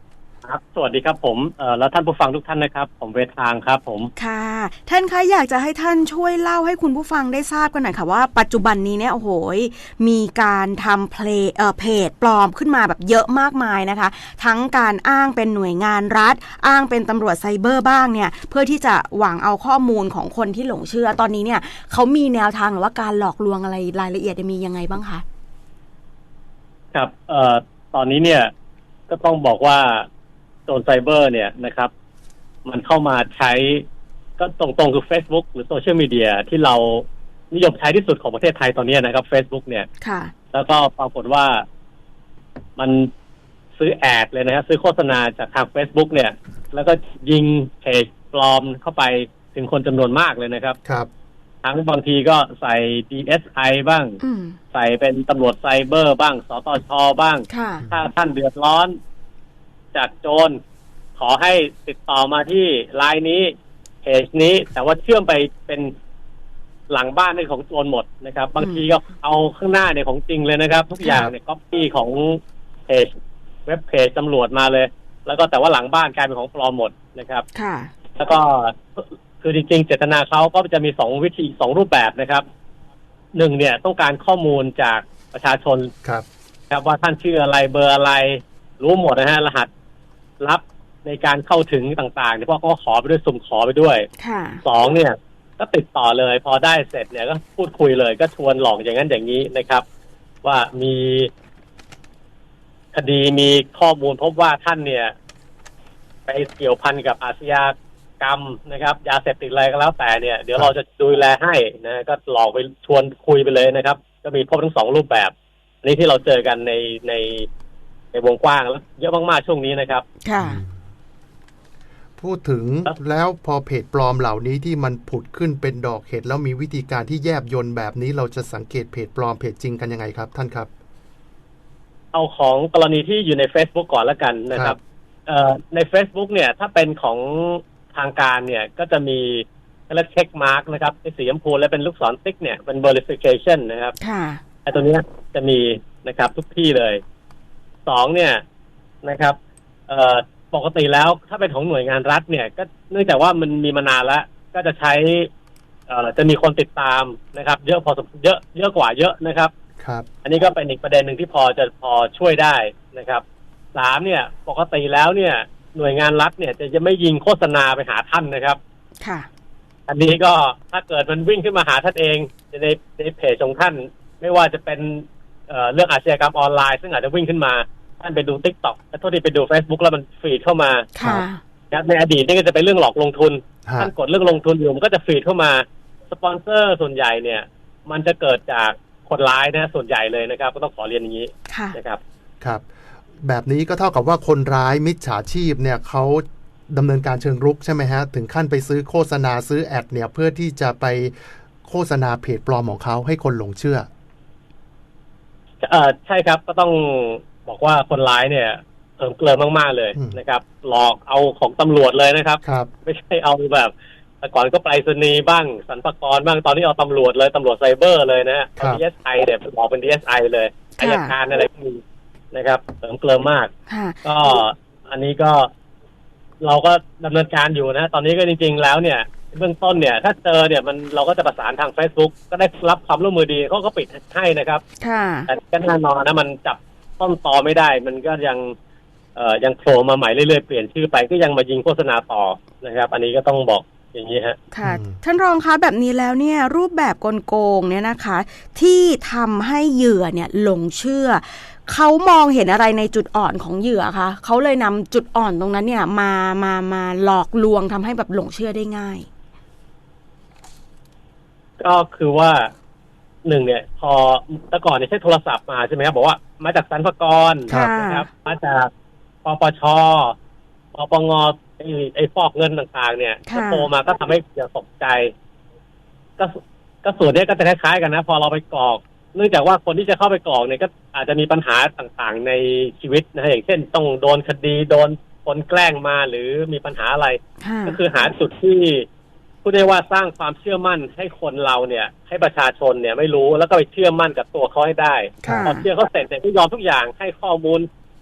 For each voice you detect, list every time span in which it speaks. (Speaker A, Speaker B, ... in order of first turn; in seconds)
Speaker A: 0.5-4.1, 26.9-28.5, 29.1-30.1, 30.7-31.9, 32.6-33.9, 34.4-39.9, 40.5-41.6, 42.8-43.1, 43.8-50.8, 51.6-54.2, 54.7-59.0, 59.9-60.6, 61.2-65.9, 66.9-73.1, 73.7-77.5, 78.2-82.5, 83.3-85.9, 86.7-89.7, 90.4-94.1, 94.6-99.8, 100.4-101.3, 102.9-105.1, 106.3-117.5, 118.1-120.0, 132.1-144.0, 144.7-147.0, 147.9-148.4, 149.0-149.4, 149.9-155.3, 155.9-159.5, 160.2-163.2, 163.7-168.6, 169.9-180.9, 181.7-192.0, 205.6-223.5, 224.1-225.5, 226.4-234.6, 235.3-238.5, 239.2-244.4, 261.6-262.5, 263.2-268.7, 269.2-270.1, 270.7-275.1, 276.2-288.9, 289.4-297.7
Speaker B: 4.2-25.2, 40.0-40.3, 54.2-54.6, 57.5-57.8, 68.6-68.8, 77.5-77.9, 94.2-94.6, 120.2-120.6, 144.0-144.4, 169.0-169.3, 180.9-181.4, 191.5-191.8, 220.8-221.2, 223.7-224.2, 234.8-235.3, 244.5-259.1, 267.5-268.1, 273.3-273.7, 287.4-287.8, 295.3-295.7
Speaker C: 120.4-120.8, 122.2-130.7, 134.5-134.8, 159.8-160.1, 183.7-183.9, 193.2-203.9, 209.9-210.2, 212.4-212.7, 244.6-245.0, 295.2-295.5